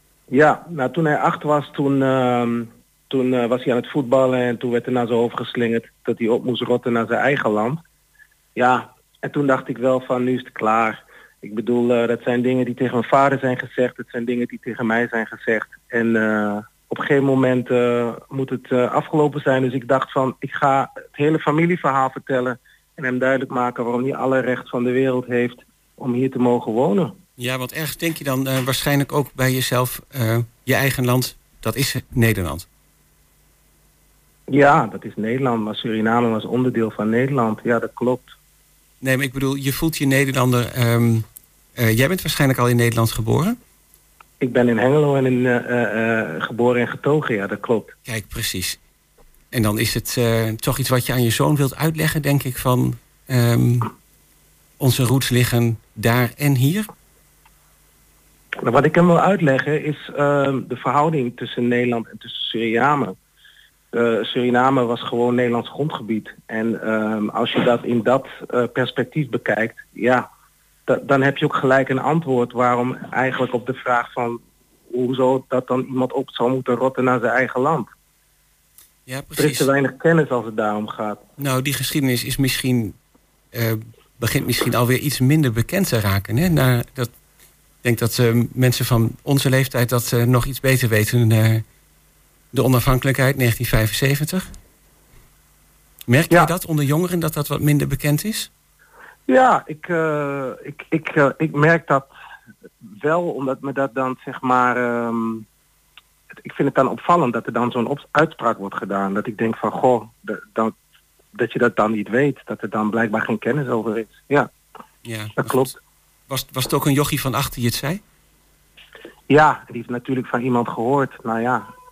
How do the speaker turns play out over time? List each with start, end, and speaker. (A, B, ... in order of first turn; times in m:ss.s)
0:00.3-0:07.8 A
0:08.5-0:27.2 A
0:27.4-0:32.6 B
0:34.5-0:38.3 A
0:39.0-0:41.2 B
0:41.8-0:43.6 B
0:44.4-0:47.9 A
0:48.0-0:48.8 B
0:49.5-0:53.9 B
0:54.8-0:56.9 B
0:58.6-1:03.1 A
1:03.9-1:10.3 A
1:10.9-1:17.9 A
1:19.1-1:19.7 B
1:19.4-1:21.2 A
1:21.4-1:23.0 B
1:23.5-1:27.1 B
1:27.8-1:31.6 B
1:32.5-1:34.5 B
1:36.1-1:38.5 B
1:39.3-1:42.1 A
1:43.0-1:45.4 A
1:46.4-1:50.7 A
1:51.3-1:54.5 A
1:55.0-1:55.7 B
1:55.4-1:55.7 A
1:56.3-1:58.0 B
1:59.3-2:01.7 A